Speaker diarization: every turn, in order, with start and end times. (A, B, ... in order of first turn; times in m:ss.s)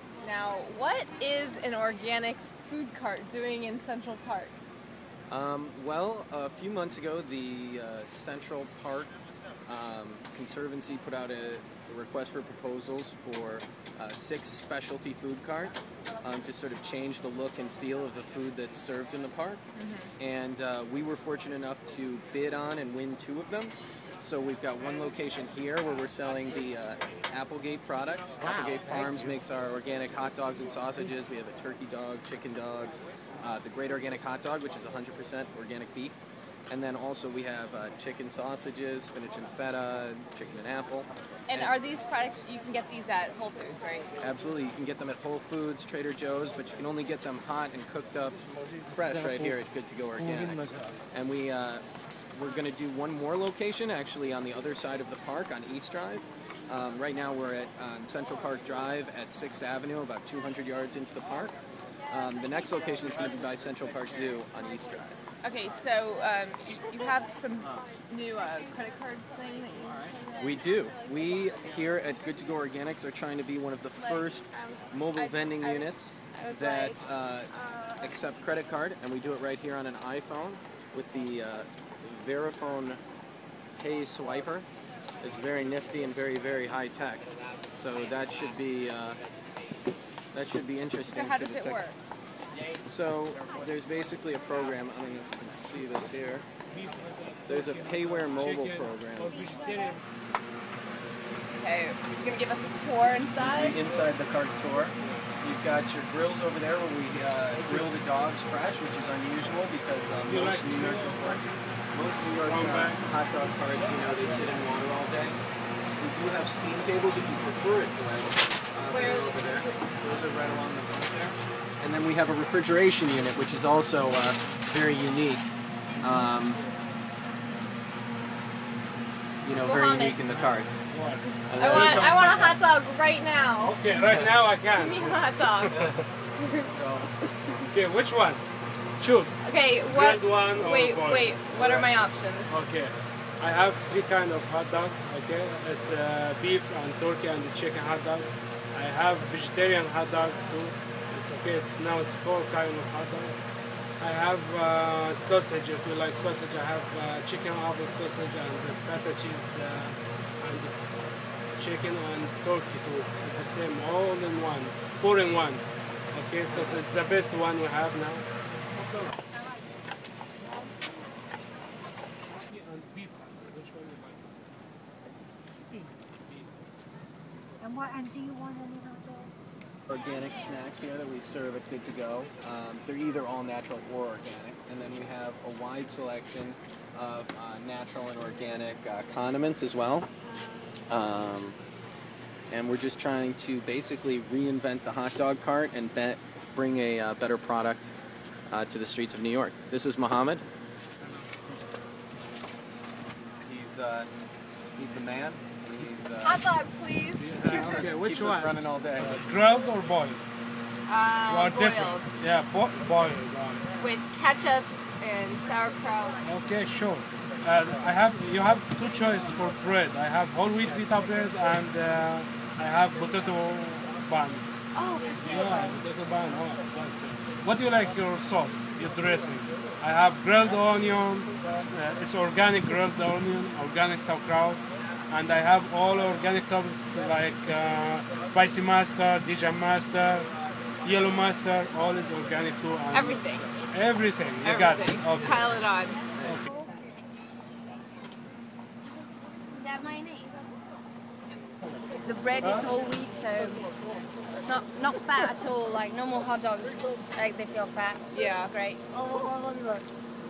0:00.2-0:04.5 A
0:05.3-0:09.1 B
0:09.7-0:19.6 B
0:19.8-0:20.1 A
0:20.2-0:36.2 B
0:36.7-0:41.7 B
0:41.5-0:44.1 A
0:44.2-0:48.4 B
0:48.9-1:01.6 B
0:49.1-0:49.5 C
0:50.2-0:50.7 C
1:02.1-1:05.2 B
1:05.4-1:10.4 A
1:10.4-1:23.0 B
1:14.1-1:17.0 A
1:23.8-1:24.7 B
1:25.2-1:29.2 B
1:30.3-1:31.9 B
1:31.1-1:32.0 A
1:32.8-1:36.5 B
1:36.7-1:40.0 C
1:37.5-1:39.4 B
1:41.6-1:43.8 A
1:43.4-1:55.4 B
1:45.0-1:45.3 C
1:47.5-1:47.9 C
1:50.2-1:51.4 C
1:52.4-1:53.0 C
1:56.0-2:05.5 B
1:58.9-2:00.0 A
2:06.0-2:06.6 B
2:09.4-2:10.8 B
2:09.6-2:10.2 A
2:10.3-2:12.6 C
2:11.5-2:12.2 B
2:11.5-2:13.8 A
2:13.6-2:15.9 C
2:14.0-2:14.3 B
2:14.8-2:15.9 A
2:16.4-2:16.7 A
2:16.6-2:17.1 B
2:17.7-2:18.4 C
2:19.0-2:19.3 C
2:19.4-2:22.6 A
2:19.9-2:22.0 C
2:22.5-2:33.4 C
2:34.0-2:40.8 C
2:41.6-2:48.3 C
2:48.8-2:49.1 C
2:52.5-2:54.2 C
2:57.6-2:59.3 D
2:59.9-3:10.1 B
3:10.9-3:11.6 B
3:12.5-3:17.9 B
3:18.5-3:20.4 B
3:21.0-3:21.6 C
3:23.4-3:24.1 B
3:24.8-3:26.4 B
3:26.2-3:27.5 A
3:27.2-3:30.2 C
3:27.4-3:29.2 B
3:30.9-3:32.1 A
3:31.3-3:33.6 C
3:33.8-3:36.2 A
3:36.2-3:44.4 C
3:44.7-3:45.7 A
3:45.3-4:00.3 C
4:00.8-4:05.4 C
4:02.9-4:03.5 A
4:04.4-4:06.0 A
4:09.6-4:10.4 D
4:12.0-4:13.6 D
4:12.4-4:12.7 C
4:14.4-4:18.8 D
4:18.1-4:18.5 A
4:19.0-4:19.8 C